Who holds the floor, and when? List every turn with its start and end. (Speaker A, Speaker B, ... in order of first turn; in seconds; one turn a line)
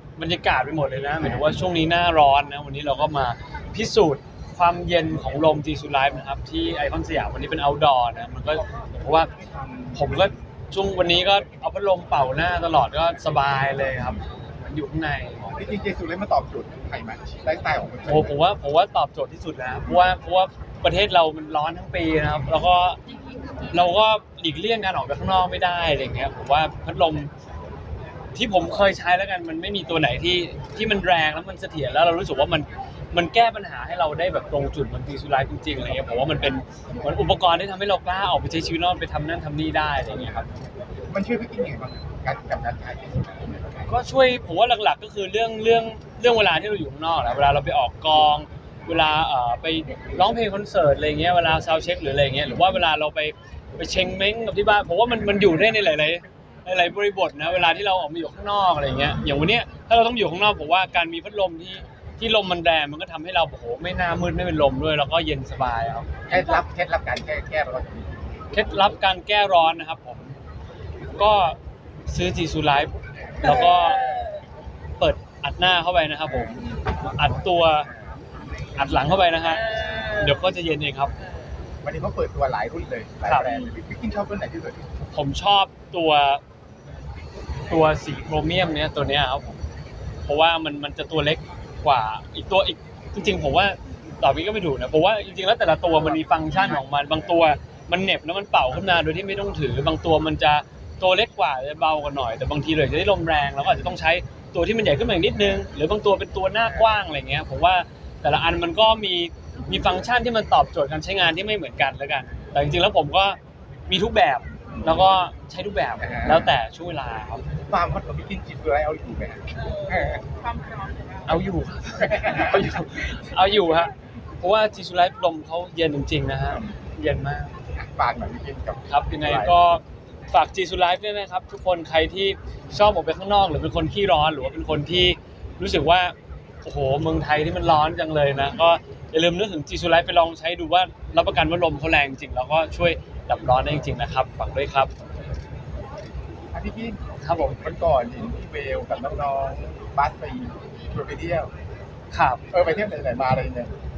Speaker A: 0.2-9.3
Speaker B: 9.4-9.9
Speaker A: 9.9-15.5
Speaker B: 15.5-18.4
Speaker A: 18.1-23.0
Speaker A: 23.7-27.3
Speaker A: 28.3-40.5
Speaker B: 41.1-43.9
Speaker A: 43.9-66.1
Speaker B: 66.3-68.5
Speaker C: 66.3-66.6
Speaker A: 68.5-70.3
Speaker A: 71.2-71.6
Speaker A: 72.1-74.0
Speaker C: 73.4-74.4
Speaker A: 75.0-77.9
Speaker C: 76.6-76.9
Speaker A: 78.7-81.1
Speaker C: 79.5-80.4
Speaker B: 81.8-84.9
Speaker A: 85.1-86.4
Speaker A: 87.7-89.6
Speaker A: 90.2-117.4
Speaker B: 114.7-115.0
Speaker B: 116.0-116.5
Speaker B: 117.7-120.2
Speaker C: 119.5-121.4
Speaker A: 121.3-127.5
Speaker B: 122.0-122.5
Speaker B: 126.5-126.8
Speaker B: 127.8-129.5
Speaker A: 128.9-144.9
Speaker B: 146.5-151.5
Speaker A: 147.2-147.6
Speaker A: 152.1-152.4
Speaker B: 152.5-153.8